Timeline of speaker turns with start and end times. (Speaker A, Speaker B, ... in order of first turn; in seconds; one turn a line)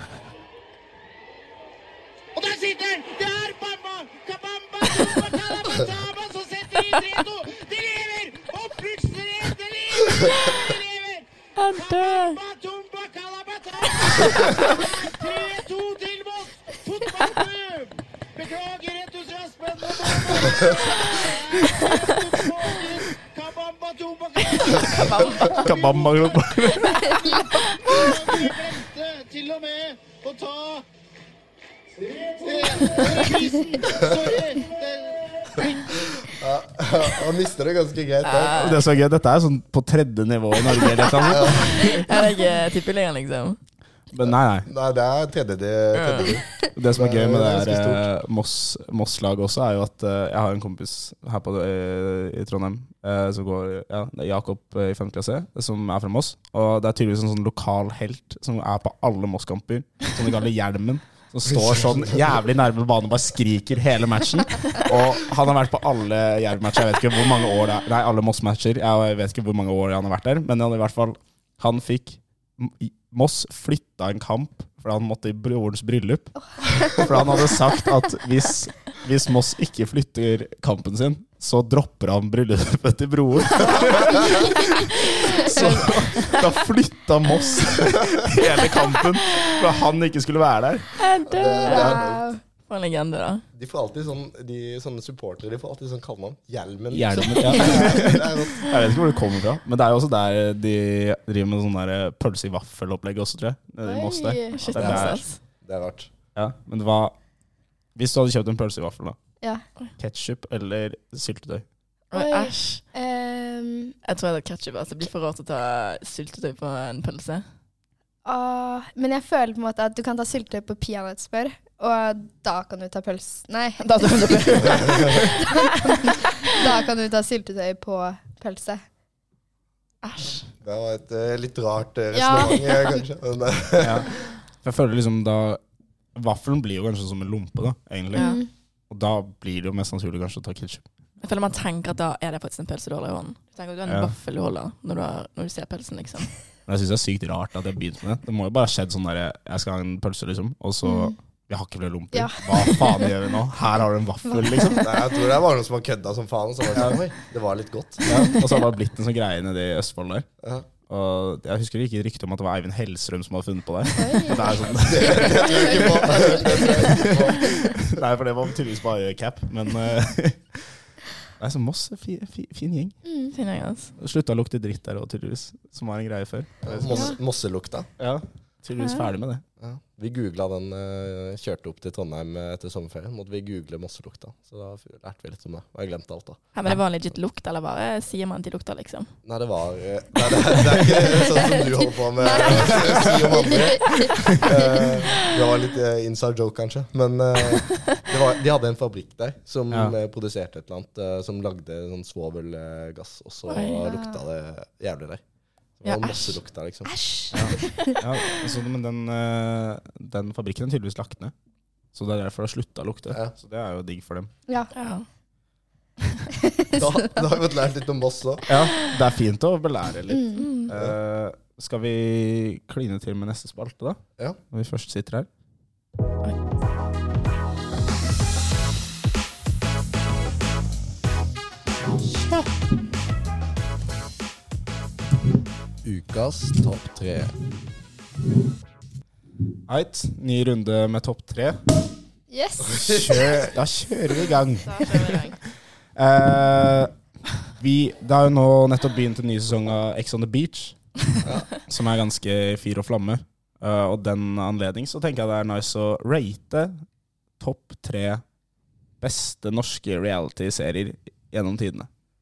Speaker A: 2.4-30.9
Speaker B: 11.6-12.4
Speaker B: 14.0-14.7
Speaker B: 24.5-25.7
Speaker C: 25.3-27.2
Speaker C: 27.9-28.3
Speaker A: 32.0-36.0
Speaker D: 36.1-38.7
Speaker B: 38.2-38.8
Speaker C: 38.6-42.0
Speaker B: 40.8-43.6
Speaker D: 41.2-41.9
Speaker C: 44.1-44.7
Speaker D: 44.2-48.1
Speaker B: 45.9-46.4
Speaker C: 46.8-90.9
Speaker D: 61.6-62.1
Speaker E: 76.6-77.2
Speaker E: 83.6-84.6
Speaker E: 85.3-85.8
Speaker B: 85.3-86.4
Speaker B: 91.0-92.0
Speaker D: 91.3-92.3
Speaker E: 91.6-92.4
Speaker B: 92.7-93.5
Speaker D: 93.5-98.7
Speaker C: 96.9-105.2
Speaker B: 97.6-98.0
Speaker E: 103.8-104.6
Speaker B: 104.5-105.4
Speaker D: 104.8-106.1
Speaker C: 106.4-107.1
Speaker C: 108.0-109.2
Speaker C: 110.0-111.7
Speaker B: 112.1-112.8
Speaker E: 112.1-114.0
Speaker B: 114.0-117.5
Speaker E: 118.2-128.8
Speaker B: 123.8-126.6
Speaker D: 124.7-125.2
Speaker B: 130.0-130.5
Speaker D: 130.6-134.2
Speaker E: 132.1-133.0
Speaker C: 133.8-135.6
Speaker C: 136.2-138.4
Speaker E: 138.1-138.5
Speaker B: 138.2-138.4
Speaker C: 138.9-140.8
Speaker B: 141.2-146.3
Speaker C: 143.9-144.1
Speaker C: 146.7-154.9
Speaker E: 150.8-151.2
Speaker E: 152.1-153.2
Speaker E: 154.3-154.9
Speaker D: 154.8-158.1
Speaker C: 158.1-160.3
Speaker D: 160.4-160.7
Speaker C: 160.9-170.7
Speaker E: 164.0-166.9
Speaker D: 164.7-167.8
Speaker C: 171.4-173.0
Speaker E: 173.1-173.3
Speaker B: 173.3-173.9
Speaker C: 174.0-177.2
Speaker D: 176.6-177.9
Speaker C: 178.0-179.4
Speaker D: 179.6-186.4
Speaker B: 186.5-189.1
Speaker D: 189.2-205.2
Speaker E: 191.3-195.0
Speaker B: 203.5-203.8
Speaker E: 203.8-204.2
Speaker D: 205.8-206.9
Speaker B: 205.8-206.4
Speaker E: 206.9-208.0
Speaker C: 207.3-211.3
Speaker C: 211.9-214.3
Speaker B: 214.7-215.1
Speaker E: 216.4-217.2
Speaker D: 216.8-218.4
Speaker C: 218.5-224.0
Speaker E: 220.1-220.5
Speaker B: 220.4-220.7
Speaker D: 220.7-221.0
Speaker C: 224.5-225.3
Speaker D: 235.8-237.3
Speaker C: 239.7-241.6
Speaker E: 242.3-242.9
Speaker D: 242.7-243.5
Speaker C: 242.7-245.2
Speaker B: 244.6-245.4
Speaker C: 246.0-246.9
Speaker C: 247.6-250.8
Speaker C: 251.7-256.7
Speaker C: 257.4-258.2
Speaker C: 259.0-261.9